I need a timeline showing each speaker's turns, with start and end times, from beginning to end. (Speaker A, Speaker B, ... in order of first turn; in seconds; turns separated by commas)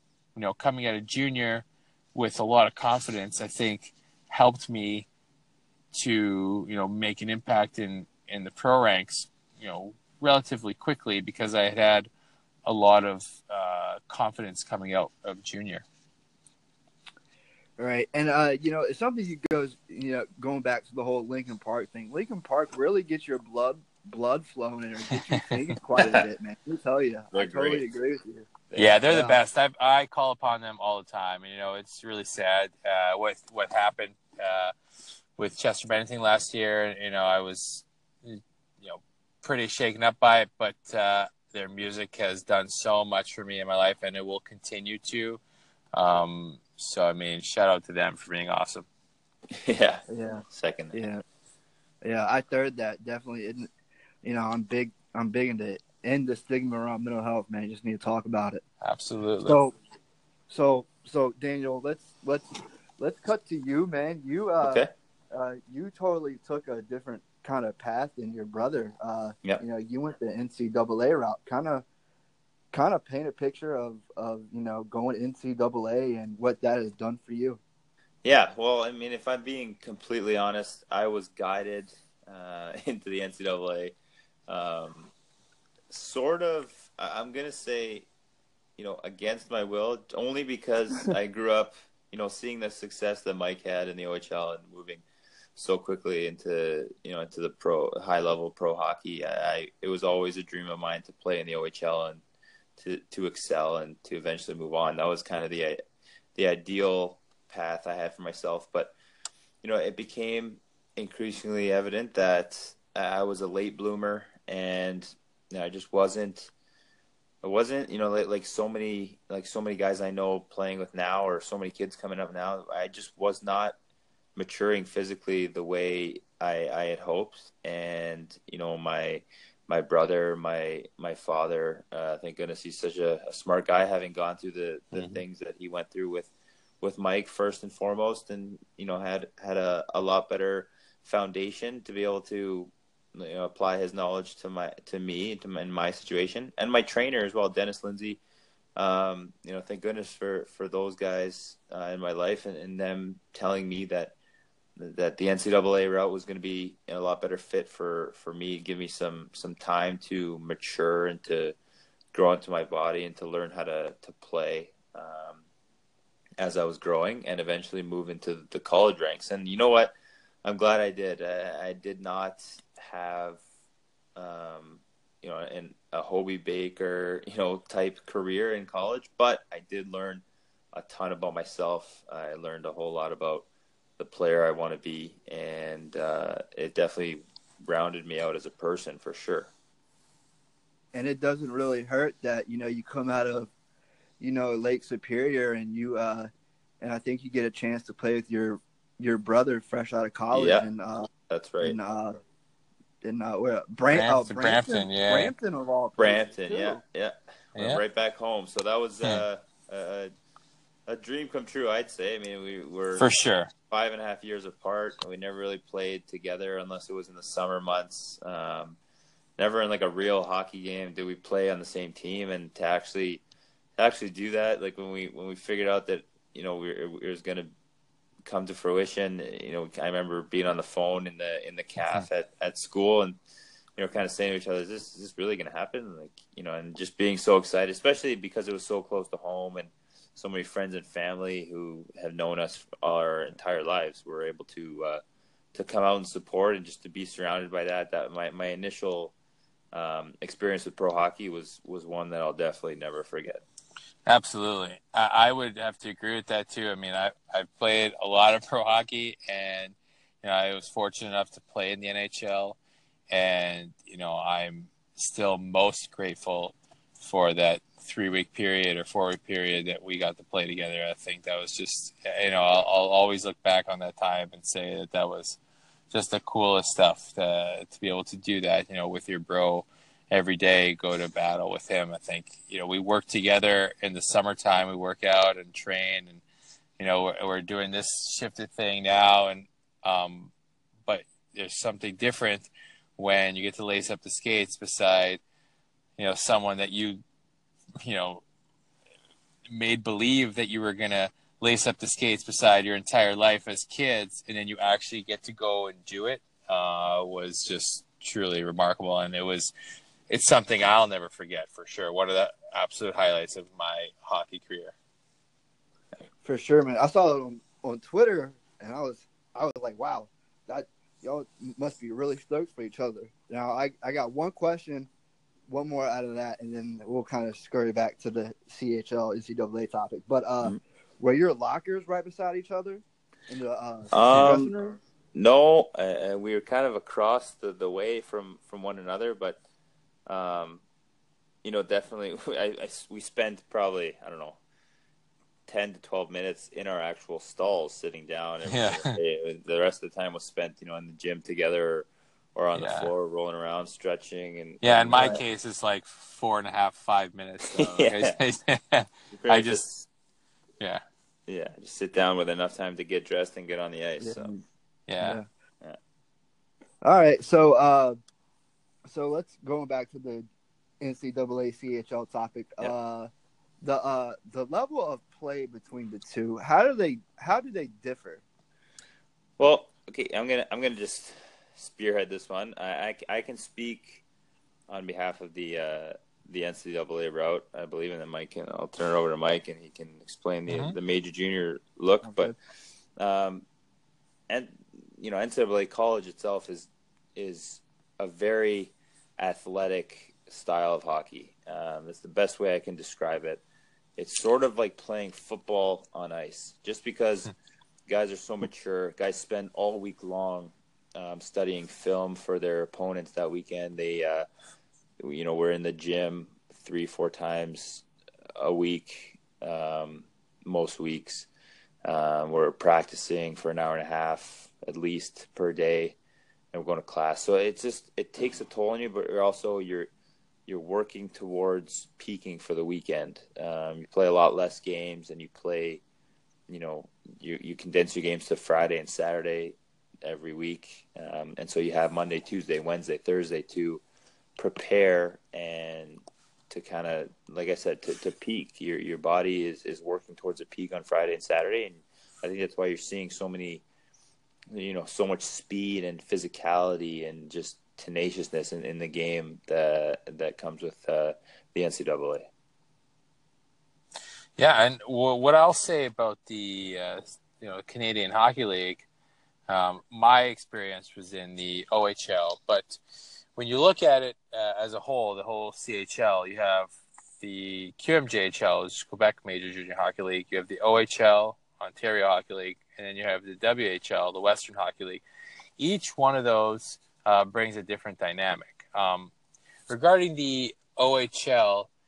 Speaker A: 0.3-5.1, Speaker A: 5.9-12.1, Speaker A: 12.7-15.8, Speaker B: 17.8-28.5, Speaker C: 26.0-26.2, Speaker C: 27.3-27.8, Speaker C: 28.7-29.0, Speaker A: 28.8-34.7, Speaker B: 29.1-29.4, Speaker A: 35.4-45.4, Speaker A: 45.9-48.9, Speaker C: 49.5-51.0, Speaker B: 50.1-51.2, Speaker B: 52.0-53.7, Speaker B: 54.2-58.6, Speaker A: 58.8-59.6, Speaker B: 59.4-59.7, Speaker B: 60.5-62.5, Speaker B: 63.0-71.8, Speaker C: 64.6-64.9, Speaker B: 72.7-77.6, Speaker C: 78.2-84.0, Speaker C: 84.5-85.1, Speaker C: 85.9-88.1, Speaker C: 88.8-95.0, Speaker C: 95.5-102.2, Speaker C: 102.8-105.8, Speaker C: 106.3-108.9, Speaker C: 109.6-116.5, Speaker C: 117.4-123.8, Speaker C: 124.3-136.3, Speaker A: 134.9-135.2, Speaker C: 136.8-148.2, Speaker C: 148.8-154.1, Speaker C: 154.8-161.6, Speaker C: 162.1-165.4, Speaker C: 166.4-173.4, Speaker C: 174.2-183.5, Speaker C: 184.0-189.5, Speaker B: 190.9-193.5, Speaker B: 194.2-196.3, Speaker B: 196.8-201.1, Speaker C: 200.3-200.7, Speaker C: 201.3-201.8, Speaker B: 201.6-202.2, Speaker B: 203.0-206.8, Speaker A: 203.9-205.3, Speaker C: 206.0-210.1, Speaker A: 207.6-207.8, Speaker C: 210.9-213.1, Speaker A: 213.0-213.5, Speaker C: 213.7-218.8, Speaker C: 219.4-223.2, Speaker C: 223.8-227.5, Speaker C: 228.2-233.2, Speaker C: 233.8-245.0, Speaker C: 245.5-249.1, Speaker C: 249.7-253.4, Speaker A: 254.1-262.6, Speaker A: 263.1-275.4, Speaker A: 275.9-286.2, Speaker A: 286.8-290.3, Speaker A: 290.9-295.2, Speaker A: 296.0-297.0, Speaker A: 297.8-298.2, Speaker A: 299.5-309.5, Speaker A: 310.1-314.7, Speaker B: 316.2-324.9, Speaker B: 325.5-334.5, Speaker C: 333.9-339.4, Speaker C: 340.1-340.6, Speaker C: 341.4-344.4, Speaker C: 345.5-355.2, Speaker A: 348.5-349.0, Speaker A: 352.5-352.9, Speaker A: 354.6-359.6, Speaker B: 354.9-355.2, Speaker C: 357.4-358.1, Speaker C: 359.1-359.9, Speaker C: 361.3-364.3, Speaker B: 364.0-364.4, Speaker A: 364.9-365.2, Speaker B: 365.0-365.2, Speaker B: 366.8-368.0, Speaker B: 368.8-370.3, Speaker B: 370.8-373.1, Speaker B: 373.6-378.2, Speaker C: 379.4-384.0, Speaker C: 384.7-392.3, Speaker A: 390.5-390.8, Speaker B: 392.0-392.3, Speaker C: 393.0-393.4, Speaker C: 394.3-403.4, Speaker C: 404.0-407.3, Speaker C: 407.9-414.3, Speaker C: 415.0-417.8, Speaker C: 418.4-421.3, Speaker C: 421.8-426.0, Speaker C: 426.5-429.9, Speaker C: 430.5-435.8, Speaker C: 436.5-443.8, Speaker C: 444.4-453.6, Speaker C: 454.5-462.3, Speaker A: 464.4-468.9, Speaker A: 469.5-472.8, Speaker A: 473.4-485.0, Speaker A: 485.6-489.1, Speaker A: 489.7-491.7